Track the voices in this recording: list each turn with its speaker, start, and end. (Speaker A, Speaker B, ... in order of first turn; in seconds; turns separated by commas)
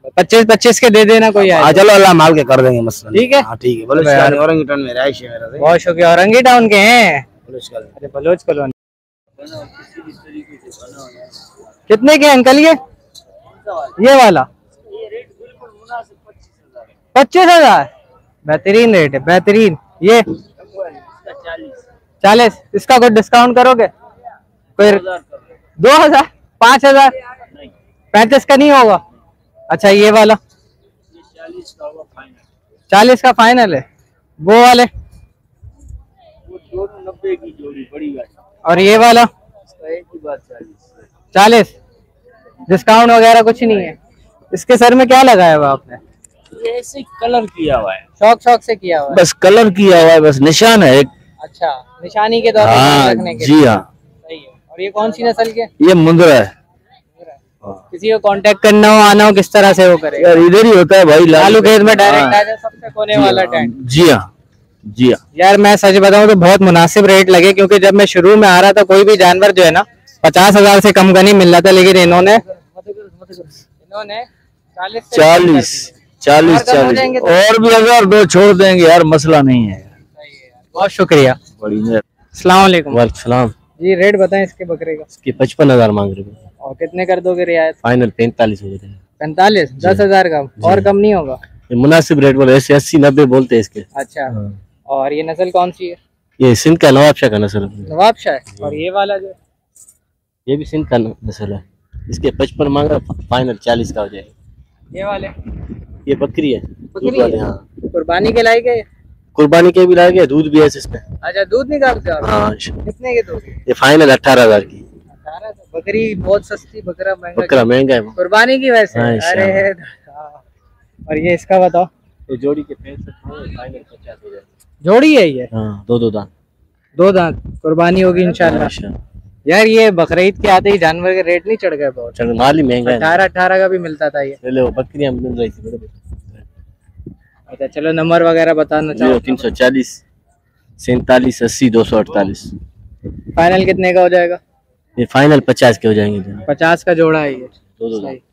Speaker A: 0.2-1.8, Speaker B: 1.4-5.7, Speaker A: 3.1-4.4, Speaker A: 5.6-7.2, Speaker B: 7.5-7.9, Speaker A: 8.0-8.7, Speaker A: 11.9-12.8, Speaker A: 14.0-14.5, Speaker A: 17.1-17.9, Speaker A: 18.5-20.2, Speaker A: 22.2-23.9, Speaker A: 24.8-25.1, Speaker A: 25.8-27.1, Speaker A: 28.1-29.0, Speaker A: 29.7-30.4, Speaker C: 31.5-32.0, Speaker A: 32.9-33.9, Speaker A: 34.4-34.9, Speaker C: 36.6-38.3, Speaker A: 38.6-39.3, Speaker C: 39.8-40.8, Speaker A: 41.3-41.8, Speaker A: 42.7-44.0, Speaker A: 44.5-46.0, Speaker C: 46.6-48.0, Speaker A: 48.2-49.2, Speaker D: 49.2-51.1, Speaker A: 51.4-53.6, Speaker D: 52.6-53.8, Speaker A: 54.2-55.7, Speaker D: 55.8-56.5, Speaker A: 57.9-60.4, Speaker D: 60.3-62.4, Speaker A: 61.3-63.7, Speaker D: 63.8-64.2, Speaker A: 65.3-72.4, Speaker A: 73.8-77.4, Speaker C: 75.1-77.2, Speaker D: 77.2-79.8, Speaker A: 80.2-81.4, Speaker C: 81.7-82.0, Speaker A: 82.3-83.0, Speaker C: 82.9-83.5, Speaker A: 83.8-85.1, Speaker C: 85.1-86.4, Speaker A: 86.6-87.8, Speaker C: 87.8-89.0, Speaker A: 89.2-91.4, Speaker C: 89.8-90.0, Speaker C: 90.6-90.9, Speaker C: 91.7-93.9, Speaker A: 94.0-94.3, Speaker A: 94.9-96.0, Speaker C: 96.4-97.9, Speaker A: 97.9-99.4, Speaker C: 100.5-104.3, Speaker A: 104.9-105.3, Speaker C: 106.1-107.6, Speaker A: 107.0-107.4, Speaker A: 107.9-108.9, Speaker C: 109.3-111.0, Speaker A: 111.2-113.6, Speaker C: 112.2-112.7, Speaker C: 113.7-114.8, Speaker A: 115.2-120.3, Speaker C: 117.4-118.2, Speaker C: 119.0-119.7, Speaker A: 121.1-121.9, Speaker C: 122.3-124.5, Speaker A: 124.8-125.5, Speaker C: 125.5-126.3, Speaker A: 127.0-128.7, Speaker C: 128.4-129.0, Speaker A: 129.5-132.1, Speaker C: 132.1-133.2, Speaker A: 132.8-134.4, Speaker C: 134.4-136.4, Speaker A: 137.5-139.5, Speaker C: 138.9-140.0, Speaker C: 140.8-142.5, Speaker A: 143.4-144.4, Speaker C: 145.0-146.4, Speaker A: 146.5-148.2, Speaker C: 147.8-148.2